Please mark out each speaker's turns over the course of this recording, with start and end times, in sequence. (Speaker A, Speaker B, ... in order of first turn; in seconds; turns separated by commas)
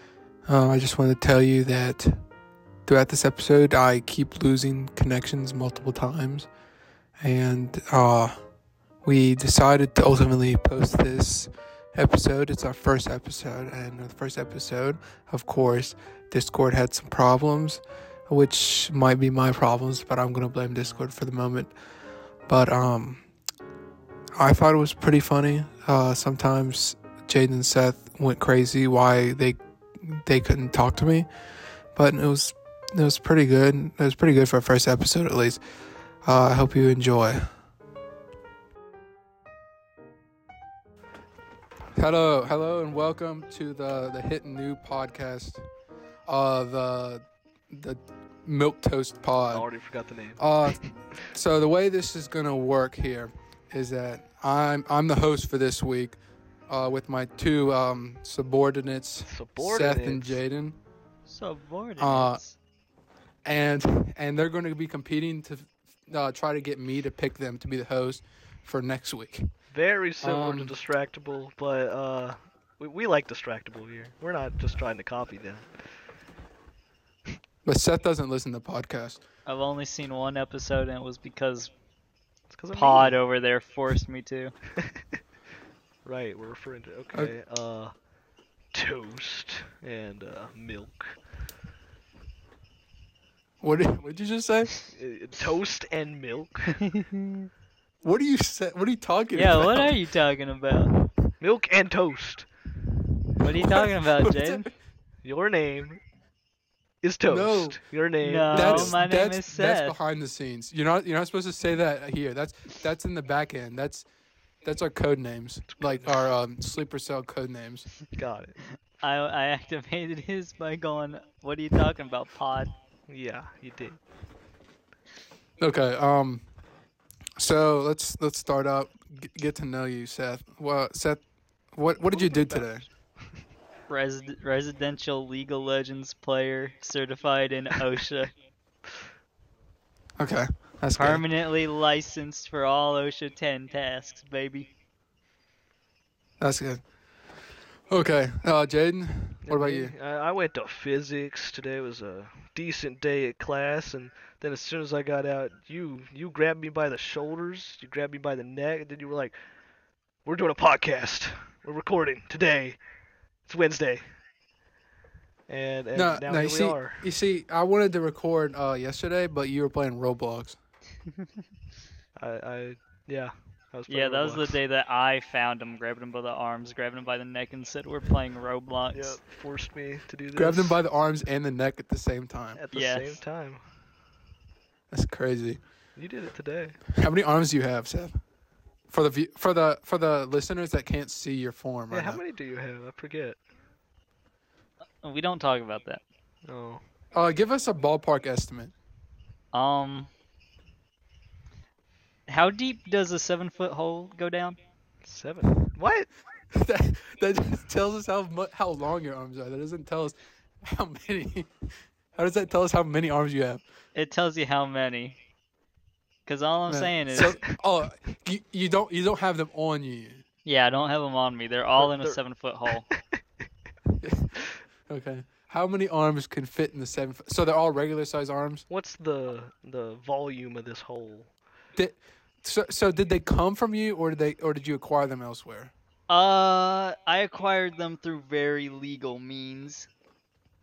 Speaker A: 0.5-2.2, Speaker A: 2.9-6.5, Speaker A: 7.2-8.4, Speaker A: 9.0-21.7, Speaker A: 22.5-23.2, Speaker A: 24.4-31.3, Speaker A: 31.9-35.6, Speaker A: 36.2-37.5, Speaker A: 41.9-45.6, Speaker A: 46.3-49.7, Speaker B: 49.5-50.5, Speaker A: 50.4-60.8, Speaker B: 59.3-60.4, Speaker C: 61.3-62.6, Speaker A: 62.0-62.4, Speaker A: 63.4-69.5, Speaker B: 69.7-75.9, Speaker A: 70.2-70.7, Speaker A: 77.6-79.2, Speaker C: 79.5-81.7, Speaker B: 82.5-83.2, Speaker C: 82.7-84.5, Speaker B: 86.0-87.9, Speaker B: 88.7-91.2, Speaker A: 93.6-94.8, Speaker B: 94.9-96.9, Speaker A: 98.0-99.9, Speaker C: 99.3-100.9, Speaker B: 101.4-102.5, Speaker C: 103.4-104.7, Speaker A: 103.6-104.7, Speaker B: 105.2-106.0, Speaker B: 107.0-109.0, Speaker A: 107.3-107.8, Speaker C: 108.2-110.0, Speaker A: 108.5-114.0, Speaker A: 114.6-117.9, Speaker B: 115.7-116.2, Speaker B: 118.1-118.6, Speaker C: 119.0-122.7, Speaker B: 123.1-124.0, Speaker A: 125.6-126.4, Speaker A: 127.4-132.8, Speaker B: 132.1-133.4, Speaker C: 133.9-138.3, Speaker A: 140.2-141.2, Speaker C: 141.0-144.7, Speaker A: 146.4-146.8, Speaker A: 147.9-149.9, Speaker B: 149.4-159.3, Speaker B: 160.2-162.8, Speaker B: 163.4-164.0, Speaker B: 165.5-167.1, Speaker A: 165.9-170.6, Speaker B: 172.2-174.6, Speaker C: 173.9-179.2, Speaker B: 178.9-180.8, Speaker A: 180.3-182.6, Speaker B: 182.6-183.6, Speaker C: 182.7-183.2, Speaker A: 184.9-185.6, Speaker B: 185.9-186.9, Speaker A: 187.0-188.1, Speaker A: 188.9-192.2, Speaker B: 191.9-193.4, Speaker C: 195.0-196.0, Speaker B: 196.4-196.8, Speaker A: 197.1-198.7, Speaker C: 199.5-200.1, Speaker C: 202.3-204.6, Speaker B: 205.0-206.1, Speaker A: 206.5-211.5, Speaker A: 212.1-213.6, Speaker C: 213.9-215.2, Speaker C: 216.2-217.4, Speaker A: 216.7-220.2, Speaker C: 220.4-222.8, Speaker B: 221.8-222.2, Speaker A: 224.0-224.3, Speaker A: 224.9-228.6, Speaker B: 228.7-231.3, Speaker A: 231.8-235.7, Speaker C: 236.1-239.9